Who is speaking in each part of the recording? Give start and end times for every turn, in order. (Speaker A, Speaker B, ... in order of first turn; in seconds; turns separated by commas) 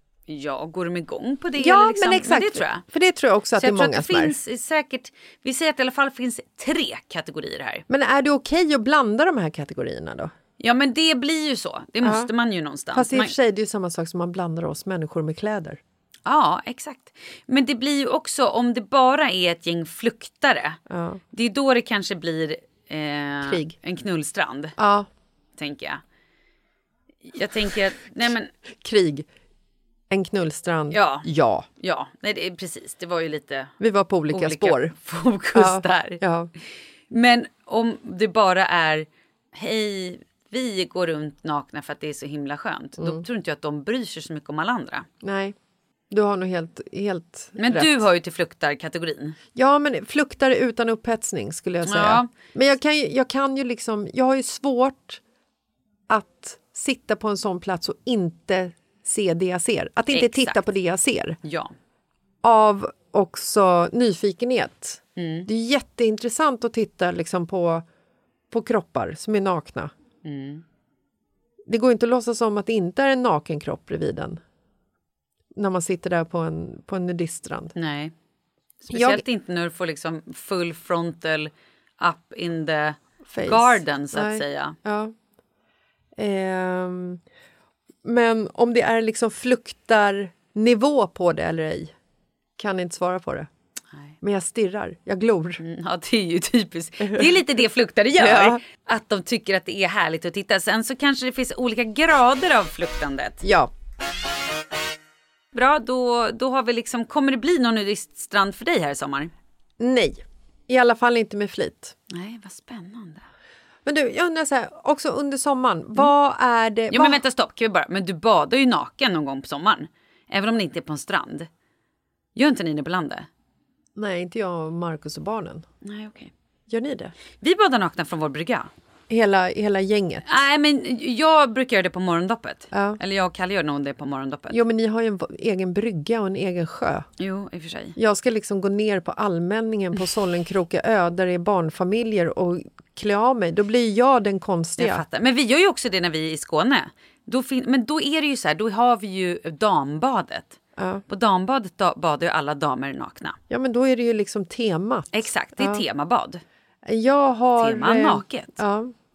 Speaker A: 0.3-2.8, Speaker B: 1.6-4.3, Speaker A: 3.5-7.8, Speaker B: 7.9-10.3, Speaker A: 10.6-13.3, Speaker B: 12.0-12.3, Speaker B: 12.9-15.8, Speaker A: 16.2-20.8, Speaker B: 20.9-21.2, Speaker A: 21.3-24.8, Speaker B: 23.4-23.7, Speaker B: 24.8-25.1, Speaker A: 25.6-26.0, Speaker A: 27.3-28.5, Speaker B: 28.8-29.3, Speaker B: 30.1-31.7, Speaker A: 30.9-31.3, Speaker A: 31.8-33.7, Speaker B: 33.8-34.9, Speaker A: 34.3-36.2, Speaker B: 35.5-36.5, Speaker A: 37.1-45.1, Speaker B: 43.0-43.2, Speaker B: 45.2-45.5, Speaker B: 46.1-48.0, Speaker A: 47.6-49.4, Speaker B: 49.5-55.2, Speaker A: 51.9-52.3, Speaker B: 56.1-61.4, Speaker A: 60.1-60.6, Speaker A: 61.4-61.7, Speaker B: 62.4-67.8, Speaker A: 65.2-65.5, Speaker B: 68.5-69.9, Speaker A: 70.2-70.6, Speaker B: 71.7-74.4, Speaker B: 75.5-77.7, Speaker A: 77.8-78.1, Speaker A: 78.8-84.8, Speaker B: 78.9-79.2, Speaker B: 83.2-85.1, Speaker B: 86.2-87.2, Speaker B: 88.0-91.9, Speaker B: 92.6-93.5, Speaker B: 94.2-95.6, Speaker A: 95.6-103.4, Speaker B: 97.0-97.4, Speaker B: 98.2-98.6, Speaker B: 103.4-103.7, Speaker A: 105.5-109.3, Speaker B: 109.8-111.9, Speaker A: 112.1-113.2, Speaker B: 113.8-117.2, Speaker A: 116.9-121.5, Speaker A: 122.3-123.3, Speaker B: 124.0-125.7, Speaker A: 125.8-126.3, Speaker B: 126.7-127.2, Speaker A: 127.4-128.7, Speaker B: 129.1-130.4, Speaker A: 130.2-134.6, Speaker B: 132.7-133.0, Speaker B: 134.5-137.1, Speaker A: 137.2-138.0, Speaker B: 137.9-145.0, Speaker A: 144.8-153.4, Speaker B: 150.8-151.0, Speaker B: 153.5-155.8, Speaker A: 155.1-156.4, Speaker B: 156.8-158.9, Speaker A: 157.6-158.6